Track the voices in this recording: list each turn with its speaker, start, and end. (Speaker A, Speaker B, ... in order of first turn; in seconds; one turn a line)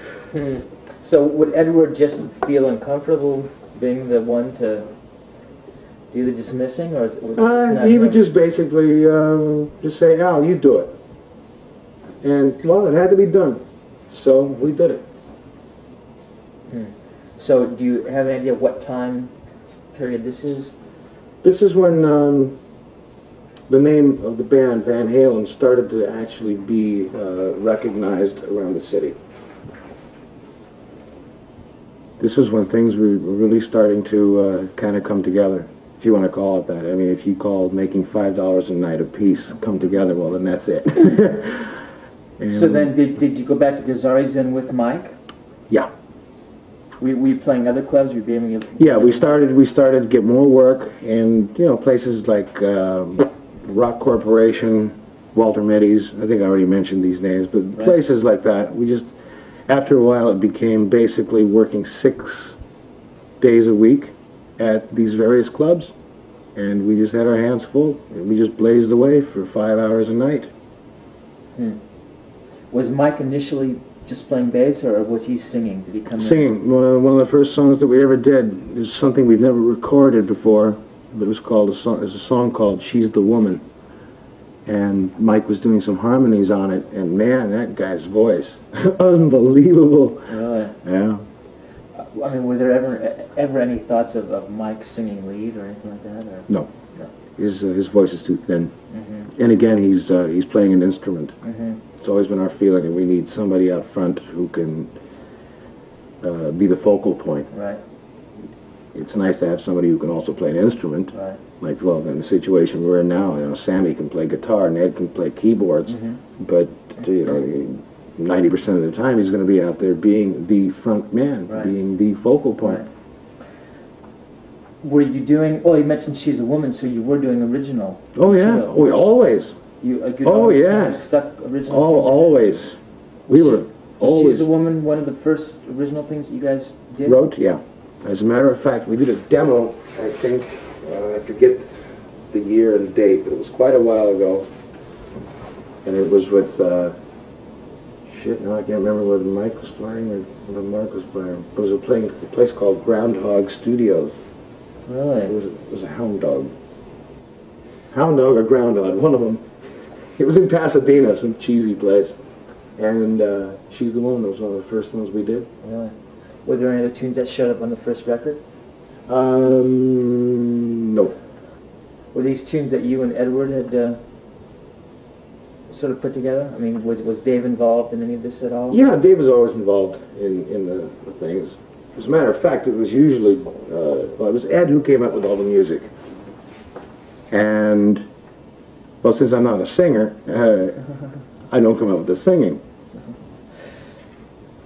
Speaker A: 0.3-4.9
Speaker A: 6.1-8.2
Speaker B: 7.4-11.0
Speaker B: 12.2-15.0
Speaker A: 16.7-19.3
Speaker A: 19.9-20.7
Speaker B: 21.4-22.6
Speaker B: 23.7-29.2
Speaker B: 32.2-41.8
Speaker B: 42.4-42.9
Speaker A: 42.5-45.1
Speaker A: 47.0-49.4
Speaker B: 48.8-59.1
Speaker B: 59.7-62.6
Speaker B: 63.4-65.9
Speaker B: 66.5-70.5
Speaker A: 72.7-76.5
Speaker B: 76.2-83.6
Speaker B: 84.7-91.2
Speaker A: 90.3-90.8
Speaker A: 92.0-97.1
Speaker B: 97.4-98.7
Speaker A: 98.9-99.3
Speaker B: 99.3-101.3
Speaker A: 101.4-101.8
Speaker B: 102.0-104.9
Speaker B: 106.2-107.5
Speaker A: 107.5-107.8
Speaker B: 108.9-122.8
Speaker A: 111.1-111.4
Speaker A: 115.9-116.2
Speaker A: 121.5-121.7
Speaker A: 122.6-122.9
Speaker A: 124.8-128.8
Speaker B: 128.2-129.6
Speaker A: 129.8-132.4
Speaker B: 130.2-131.0
Speaker B: 131.7-134.5
Speaker A: 133.3-137.2
Speaker B: 137.1-144.5
Speaker B: 145.8-147.0
Speaker B: 148.1-154.2
Speaker A: 154.9-155.3
Speaker B: 155.3-156.5
Speaker B: 157.9-159.4
Speaker B: 160.2-162.2
Speaker B: 162.8-165.5
Speaker A: 165.6-165.9
Speaker A: 166.5-168.4
Speaker B: 169.1-171.2
Speaker A: 172.1-174.0
Speaker A: 175.7-178.8
Speaker B: 178.7-185.9
Speaker B: 187.3-188.1
Speaker B: 189.0-190.8
Speaker B: 191.5-192.6